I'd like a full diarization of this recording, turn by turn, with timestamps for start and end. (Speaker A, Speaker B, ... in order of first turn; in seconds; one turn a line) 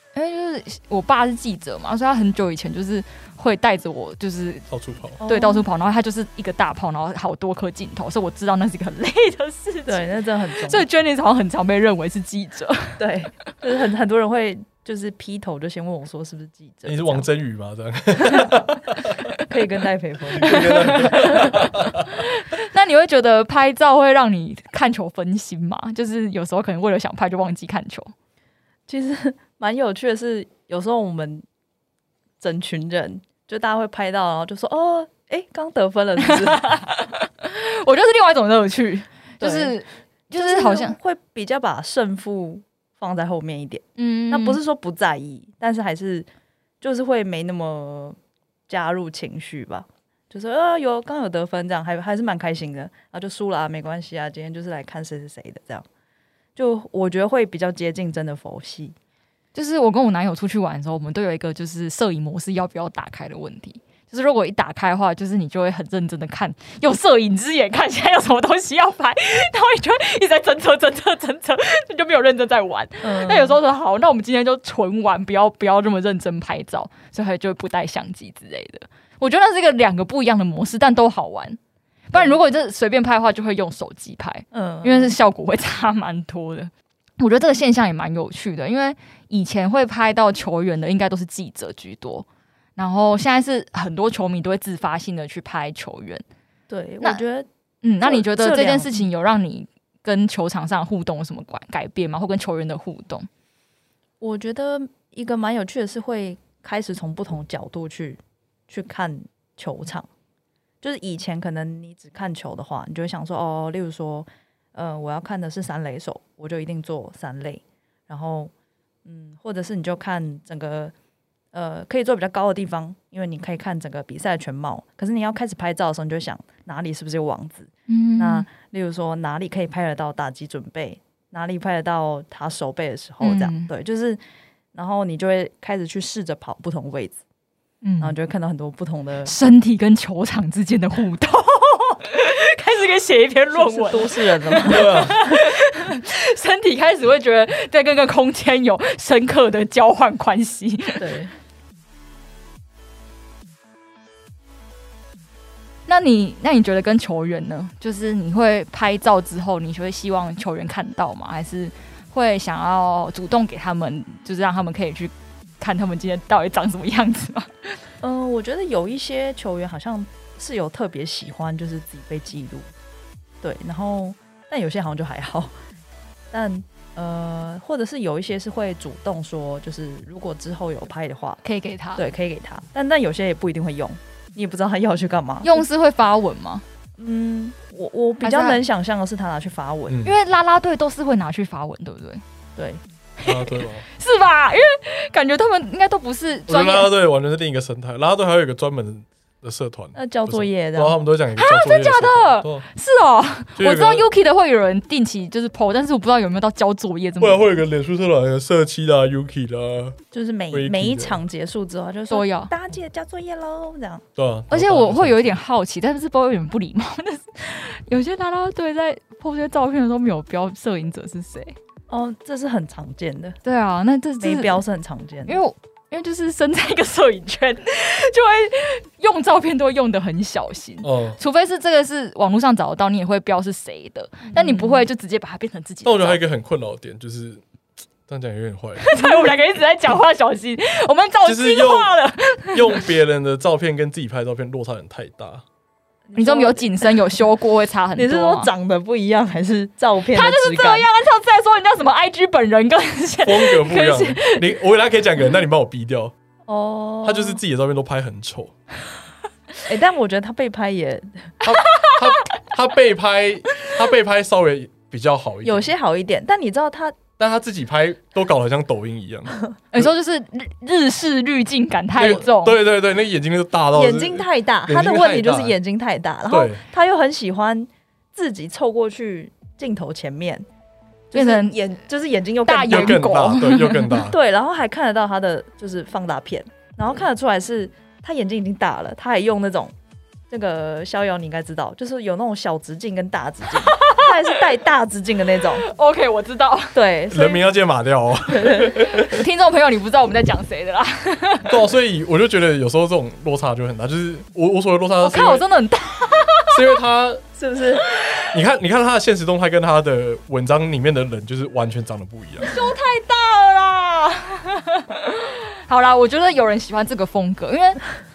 Speaker A: 0.1-4.7
Speaker B: 4.7-5.2
Speaker C: 5.2-5.7
Speaker A: 5.2-13.0
Speaker C: 9.8-10.8
Speaker C: 13.0-17.3
Speaker B: 16.9-19.2
Speaker C: 19.4-21.6
Speaker B: 20.3-22.1
Speaker A: 20.4-28.1
Speaker C: 28.9-31.4
Speaker C: 32.4-36.6
Speaker A: 36.2-41.0
Speaker C: 39.4-39.8
Speaker C: 40.3-46.3
Speaker A: 44.0-44.6
Speaker C: 46.8-48.2
Speaker C: 48.7-55.9
Speaker C: 56.5-59.0
Speaker A: 59.5-81.6
Speaker C: 73.0-73.6
Speaker A: 82.1-92.2
Speaker C: 84.5-85.1
Speaker A: 92.8-96.2
Speaker C: 96.7-97.5
Speaker A: 97.8-103.3
Speaker C: 98.0-99.1
Speaker C: 104.2-110.1
Speaker C: 110.8-118.5
Speaker C: 119.0-120.9
Speaker C: 121.5-134.2
Speaker A: 127.9-128.4
Speaker A: 133.2-133.7
Speaker C: 134.7-137.2
Speaker A: 137.8-138.1
Speaker C: 138.0-139.3
Speaker A: 139.2-151.1
Speaker C: 143.5-145.2
Speaker B: 144.7-145.2
Speaker C: 151.0-151.3
Speaker A: 155.9-167.8
Speaker C: 168.0-172.7
Speaker C: 173.4-175.5
Speaker C: 176.3-181.4
Speaker A: 181.4-182.0
Speaker C: 181.9-185.6
Speaker A: 185.4-186.6
Speaker C: 187.0-190.0
Speaker A: 188.2-188.6
Speaker B: 189.9-190.1
Speaker A: 190.0-192.2
Speaker A: 193.2-196.9
Speaker B: 193.2-193.8
Speaker B: 196.5-202.6
Speaker C: 199.9-201.0
Speaker A: 201.4-207.5
Speaker B: 203.6-204.1
Speaker B: 207.2-210.0
Speaker C: 210.1-214.0
Speaker B: 210.5-211.2
Speaker A: 212.1-212.5
Speaker B: 214.2-215.4
Speaker A: 214.5-221.6
Speaker C: 221.9-223.4
Speaker A: 223.4-224.6
Speaker C: 224.2-225.4
Speaker A: 225.3-236.2
Speaker B: 230.8-231.2
Speaker C: 234.3-234.8
Speaker B: 235.8-237.4
Speaker B: 238.1-238.9
Speaker A: 238.8-242.9
Speaker B: 241.2-241.9
Speaker B: 242.5-245.4
Speaker C: 246.1-247.2
Speaker A: 246.2-248.5
Speaker C: 247.9-250.9
Speaker A: 250.1-254.5
Speaker B: 253.2-256.1
Speaker C: 256.5-257.4
Speaker B: 257.0-258.5
Speaker C: 259.6-261.3
Speaker B: 261.4-265.7
Speaker A: 261.6-262.2
Speaker C: 265.4-267.0
Speaker B: 267.2-269.9
Speaker A: 269.7-272.6
Speaker B: 271.9-275.5
Speaker C: 273.7-280.4
Speaker B: 276.3-276.6
Speaker C: 281.1-283.1
Speaker A: 281.1-281.6
Speaker A: 282.4-284.0
Speaker B: 282.7-284.2
Speaker C: 284.1-289.7
Speaker C: 290.3-295.6
Speaker A: 293.6-294.1
Speaker A: 295.6-296.8
Speaker C: 296.7-297.5
Speaker B: 297.1-299.2
Speaker C: 298.3-298.8
Speaker A: 298.9-301.5
Speaker B: 301.5-305.4
Speaker A: 305.0-306.8
Speaker B: 306.5-307.2
Speaker C: 307.4-307.8
Speaker A: 307.9-308.3
Speaker B: 308.3-312.5
Speaker A: 312.5-317.8